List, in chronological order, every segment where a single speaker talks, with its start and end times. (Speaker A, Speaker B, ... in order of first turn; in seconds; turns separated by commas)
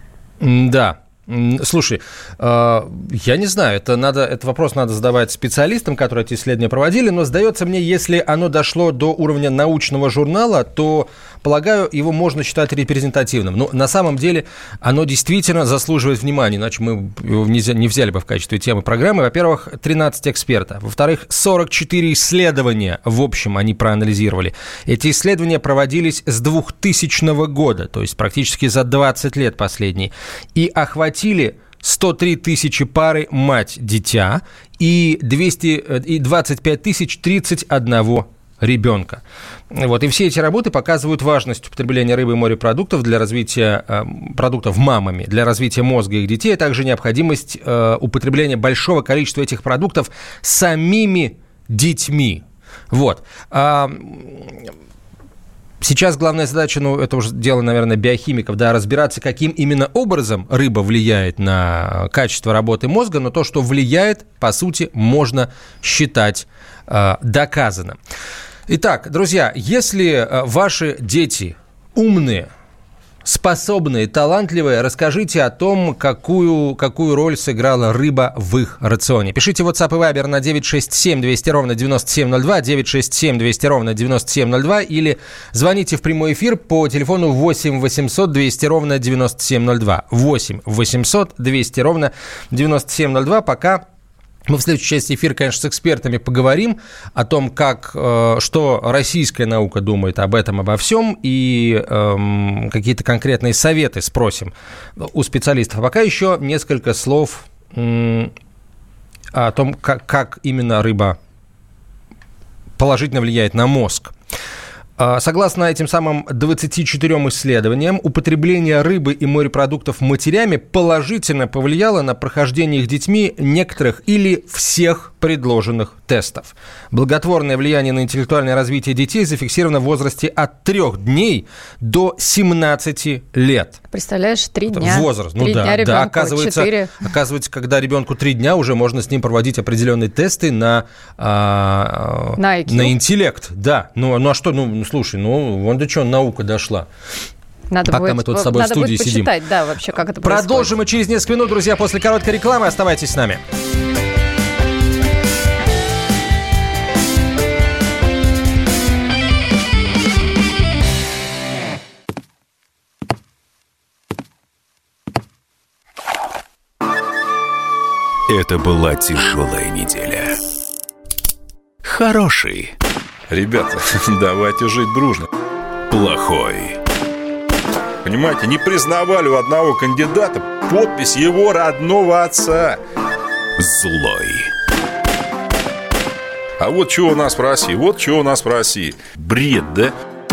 Speaker A: 0.4-54.7, Speaker A: 55.8-68.0, Speaker A: 68.7-72.5, Speaker A: 73.2-93.8, Speaker A: 94.5-108.3, Speaker A: 109.3-111.2, Speaker A: 112.8-114.1, Speaker A: 115.0-133.8, Speaker B: 133.9-137.0, Speaker A: 134.7-146.9, Speaker B: 142.4-142.9, Speaker B: 147.7-150.7, Speaker A: 147.9-149.3, Speaker A: 150.2-153.4, Speaker C: 168.3-170.4, Speaker C: 171.8-172.7, Speaker D: 173.3-175.3, Speaker C: 175.9-176.8, Speaker D: 178.1-182.8, Speaker C: 183.6-184.5, Speaker D: 186.6-189.9